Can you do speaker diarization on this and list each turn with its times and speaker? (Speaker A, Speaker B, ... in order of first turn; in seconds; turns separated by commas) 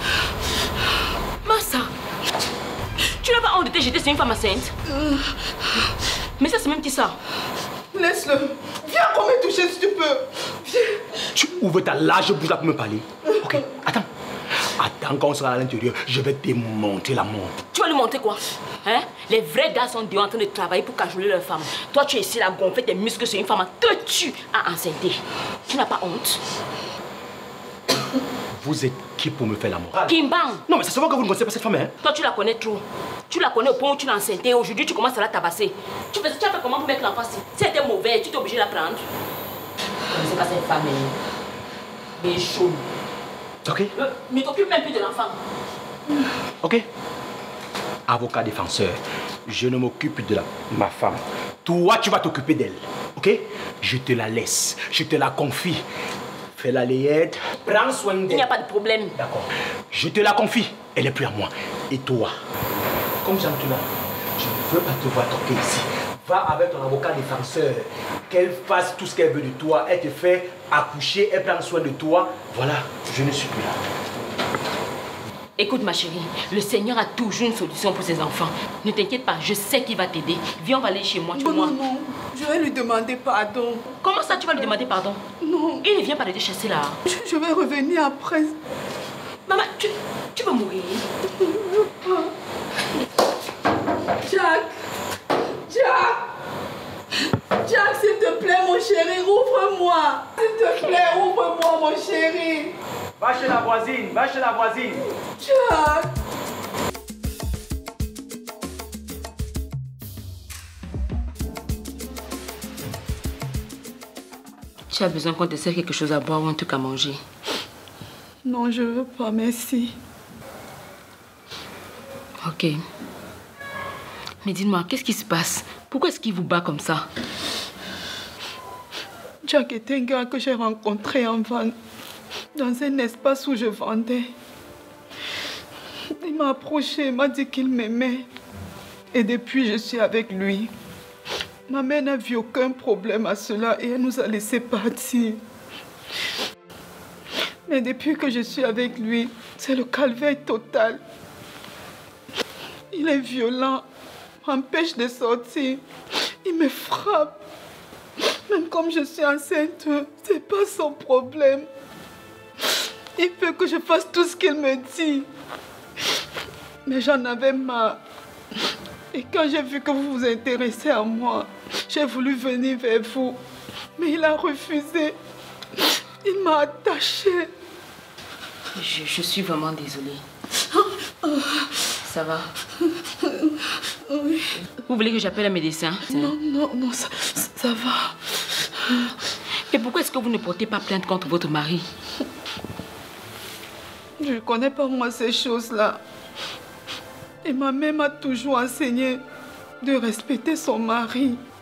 Speaker A: 1.4-1.9, Speaker A: 3.0-4.7, Speaker A: 6.4-7.2, Speaker B: 7.9-11.0, Speaker C: 11.3-14.1, Speaker C: 14.6-17.5, Speaker A: 17.7-26.4, Speaker C: 28.6-30.1, Speaker A: 30.1-30.6, Speaker C: 30.6-31.9, Speaker A: 32.0-39.0, Speaker A: 40.1-41.1, Speaker A: 42.2-42.9, Speaker C: 43.6-43.9, Speaker A: 43.9-45.4, Speaker C: 48.1-55.8, Speaker C: 56.6-58.5, Speaker A: 58.3-59.1, Speaker C: 59.1-62.3, Speaker C: 63.2-73.8, Speaker A: 75.6-81.8, Speaker B: 81.4-83.8, Speaker A: 84.0-85.2, Speaker B: 85.4-85.8, Speaker A: 85.8-87.0, Speaker B: 87.0-88.6, Speaker A: 89.5-91.0, Speaker B: 91.4-92.3, Speaker B: 94.2-94.7, Speaker B: 95.7-96.2, Speaker B: 97.6-102.7, Speaker C: 103.2-105.0, Speaker B: 105.4-106.0, Speaker A: 114.9-117.2, Speaker B: 118.4-119.9, Speaker A: 122.4-122.8, Speaker A: 124.4-127.1, Speaker B: 129.4-131.8, Speaker B: 132.5-134.3, Speaker B: 136.2-138.2, Speaker B: 139.1-140.7, Speaker B: 141.7-145.4, Speaker B: 147.7-151.0, Speaker B: 152.9-153.8, Speaker B: 154.4-157.4, Speaker B: 158.2-161.7, Speaker B: 163.2-165.3, Speaker B: 166.8-168.0, Speaker B: 169.1-173.4, Speaker B: 173.9-175.2, Speaker B: 176.2-177.5, Speaker A: 178.7-180.2, Speaker A: 182.0-182.5, Speaker B: 183.2-183.5, Speaker B: 184.1-184.5, Speaker A: 184.8-186.3, Speaker B: 186.1-188.8, Speaker A: 189.7-191.8, Speaker B: 194.2-196.0, Speaker B: 197.4-199.2, Speaker B: 199.8-201.4